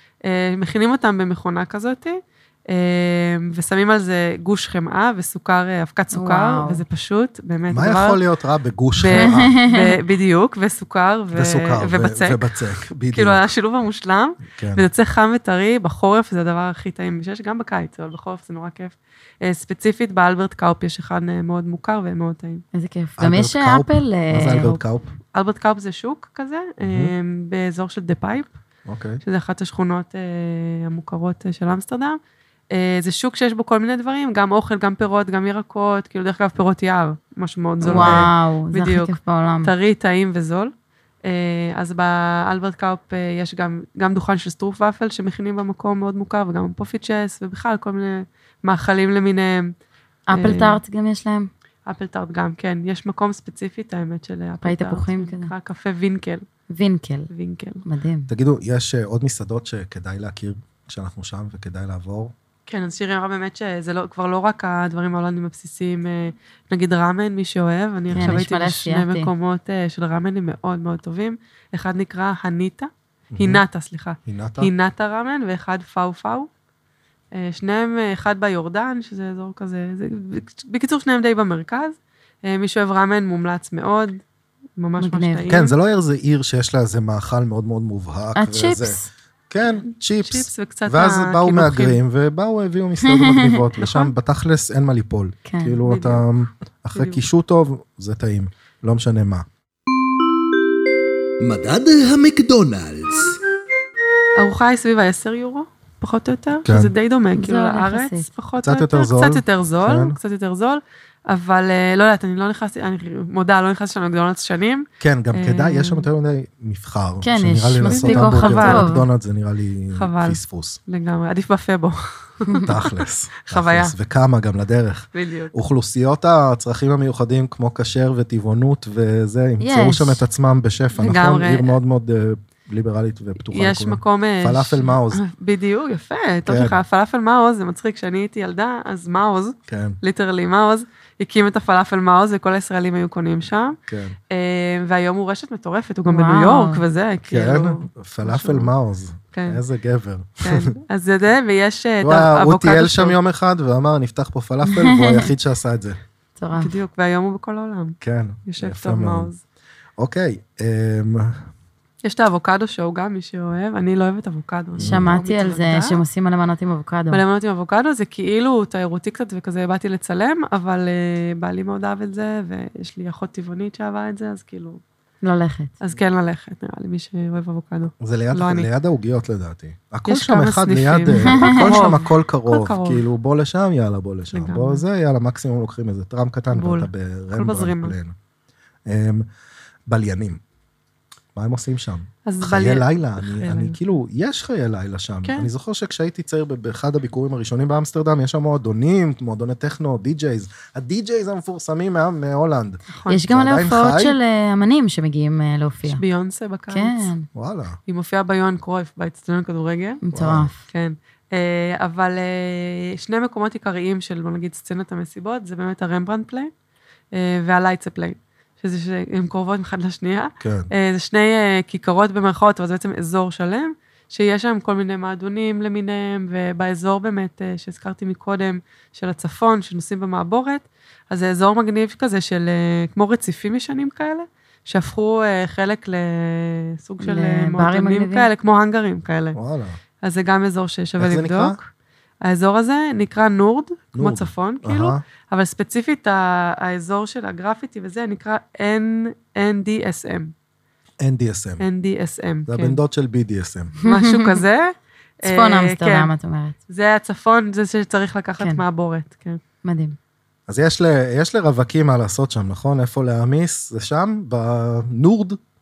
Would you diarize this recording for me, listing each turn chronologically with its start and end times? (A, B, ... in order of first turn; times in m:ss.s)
0:00.2-0:08.2 A
0:06.1-0:06.8 B
0:07.7-0:09.6 C
0:09.0-0:12.5 A
0:09.1-0:10.0 B
0:11.3-0:13.4 C
0:13.1-0:22.6 A
0:14.5-0:14.8 C
0:22.7-0:24.7 B
0:23.2-0:25.1 C
0:24.4-0:24.8 A
0:25.3-0:28.5 A
0:26.8-0:27.1 C
0:28.9-0:29.2 C
0:29.2-0:32.2 A
0:32.7-0:40.7 A
0:37.8-0:39.7 B
0:37.8-0:38.3 C
0:41.2-0:49.7 A
0:50.3-0:51.5 B
0:50.3-0:50.8 A
0:51.8-0:56.4 A
0:54.6-0:55.5 B
0:56.7-0:57.3 B
0:57.3-0:57.8 A
0:57.8-0:58.3 B
0:58.3-1:02.3 C
1:02.7-1:16.5 A
1:08.1-1:09.3 B
1:13.3-1:13.6 C
1:14.2-1:14.7 C
1:17.3-1:24.2 A
1:24.8-1:25.7 A
1:25.0-1:25.5 B
1:25.5-1:39.4 C
1:28.3-1:29.1 B
1:29.8-1:32.0 A
1:33.0-1:33.6 B
1:33.8-1:34.1 A
1:35.4-1:35.8 B
1:35.8-1:36.3 A
1:36.9-1:37.2 A
1:41.4-1:43.4 C
1:44.4-1:56.1 A
1:46.6-1:46.9 C
1:47.4-1:48.2 B
1:48.6-1:50.2 C
1:55.0-2:00.8 C
1:57.2-1:59.1 B
1:57.8-1:58.9 A
1:59.9-2:03.9 A
2:02.6-2:15.2 C
2:05.1-2:05.5 A
2:09.6-2:10.2 B
2:11.0-2:11.7 A
2:13.5-2:23.8 A
2:16.4-2:16.8 C
2:19.7-2:20.0 C
2:23.8-2:24.2 C
2:24.3-2:28.7 A
2:26.1-2:26.8 B
2:27.3-2:30.8 C
2:29.3-2:29.6 A
2:30.4-2:33.2 A
2:32.0-2:36.0 C
2:34.7-2:35.3 B
2:36.4-2:36.8 B
2:36.5-2:39.4 A
2:38.0-2:39.3 C
2:40.0-2:41.5 C
2:42.0-2:46.0 A
2:44.8-2:45.1 C
2:44.8-2:47.2 B
2:47.1-2:54.8 A
2:55.2-2:55.7 B
2:55.8-2:58.7 A
2:58.0-3:08.1 C
3:00.1-3:03.0 A
3:01.2-3:01.8 B
3:04.3-3:04.8 A
3:06.5-3:07.9 A
3:08.8-3:09.2 C
3:09.9-3:10.4 C
3:11.3-3:24.2 C
3:12.2-3:13.8 A
3:22.9-3:23.2 A
3:23.1-3:26.0 B
3:25.9-3:27.1 A
3:26.7-3:27.3 B
3:27.3-3:27.8 C
3:27.9-3:30.0 A
3:30.0-3:30.6 B
3:30.1-3:30.5 C
3:30.7-3:36.5 A
3:37.1-3:59.4 A
3:40.4-3:40.7 C
3:57.0-3:58.3 B
3:59.3-3:59.8 C
4:00.0-4:01.7 A
4:01.0-4:01.6 C
4:02.2-4:10.3 A
4:03.9-4:05.0 C
4:11.0-4:11.6 C
4:11.6-4:12.8 A
4:12.5-4:13.7 C
4:13.8-4:14.4 B
4:13.8-4:16.1 A
4:15.2-4:16.6 B
4:16.7-4:19.4 A
4:18.4-4:18.6 B
4:19.6-4:20.0 B
4:20.5-4:25.4 C